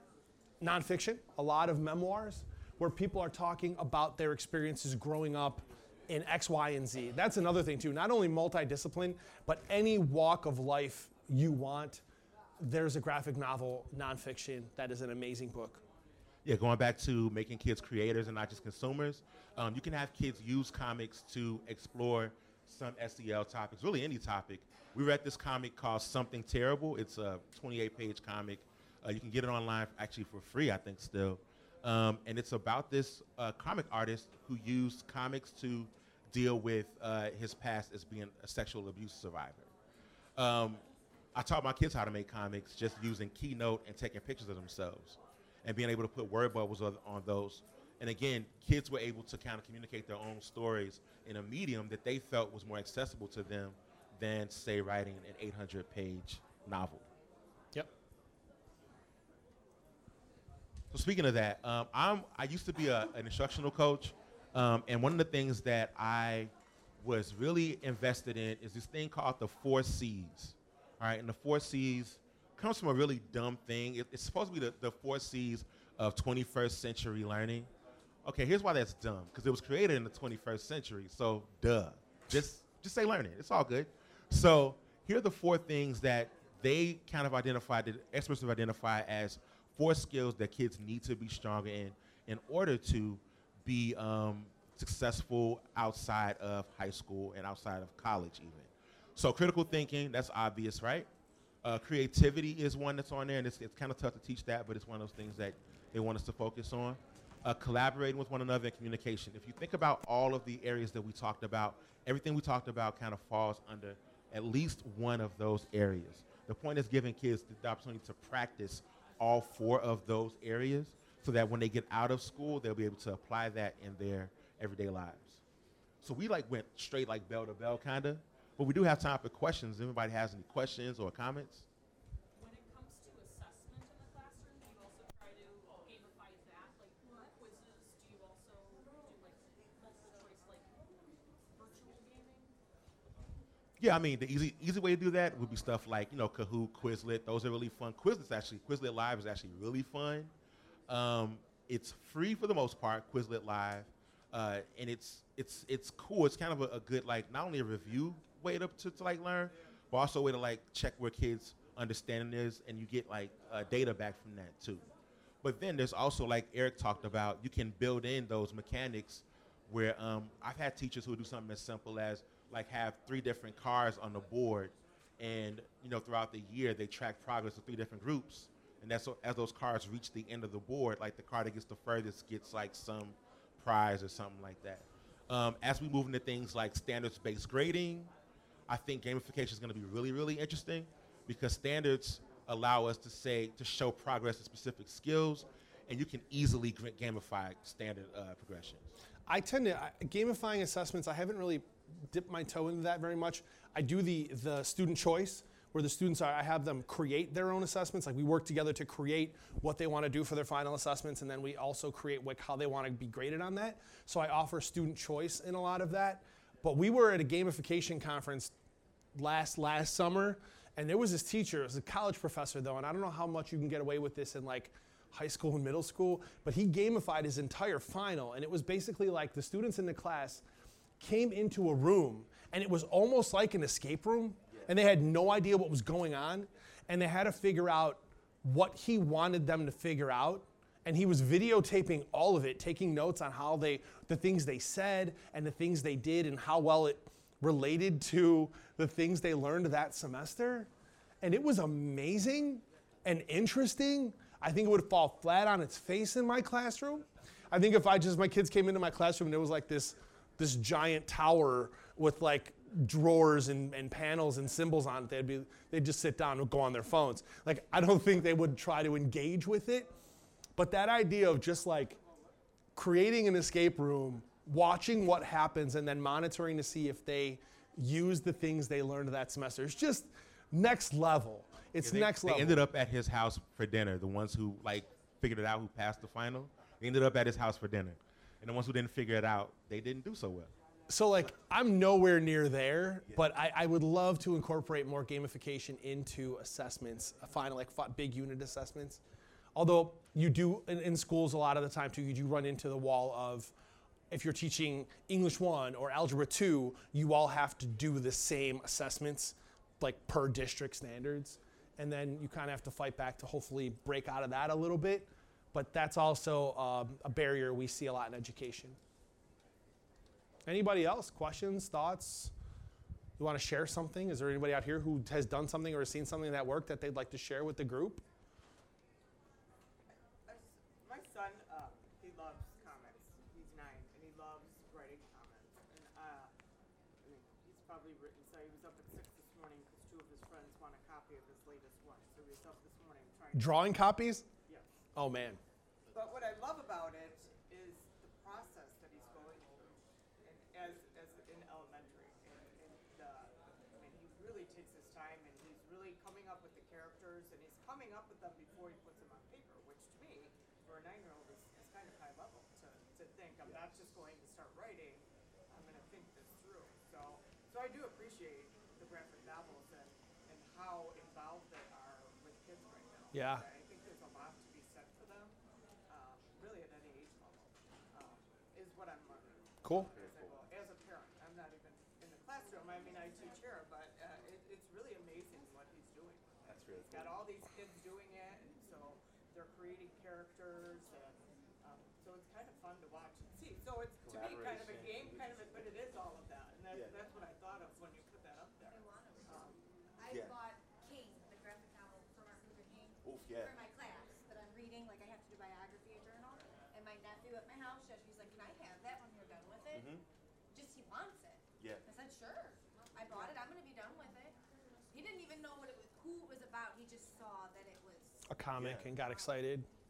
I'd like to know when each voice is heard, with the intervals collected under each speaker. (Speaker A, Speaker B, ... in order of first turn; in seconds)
Speaker A: 0.6-12.0, 12.6-15.8, 199.3-218.5, 219.1-230.4, 231.0-250.7, 251.2-269.9, 270.6-272.0, 272.7-282.6, 290.9-299.0, 299.5-303.5, 304.1-318.8, 320.4-322.3, 323.2-328.0, 343.3-344.3, 344.9-345.4, 373.1-373.4, 379.6-379.9, 418.3-419.7
Speaker B: 16.4-39.7, 40.4-40.8, 41.3-57.0, 60.9-66.5, 67.0-77.7, 78.2-101.1, 101.6-125.4, 126.0-131.7, 143.8-150.3, 150.9-164.8, 165.4-188.1, 188.7-198.9, 281.8-290.5, 379.8-380.5, 386.4-387.2, 394.0-395.6, 396.7-397.0, 400.1-400.4, 403.0-403.6, 409.7-410.0, 411.6-411.8, 418.6-418.9
Speaker C: 132.3-140.9, 141.5-142.5
Speaker D: 330.2-336.3, 337.0-343.8, 344.4-344.7, 345.9-375.4, 375.9-399.6
Speaker E: 398.6-414.4, 414.9-418.3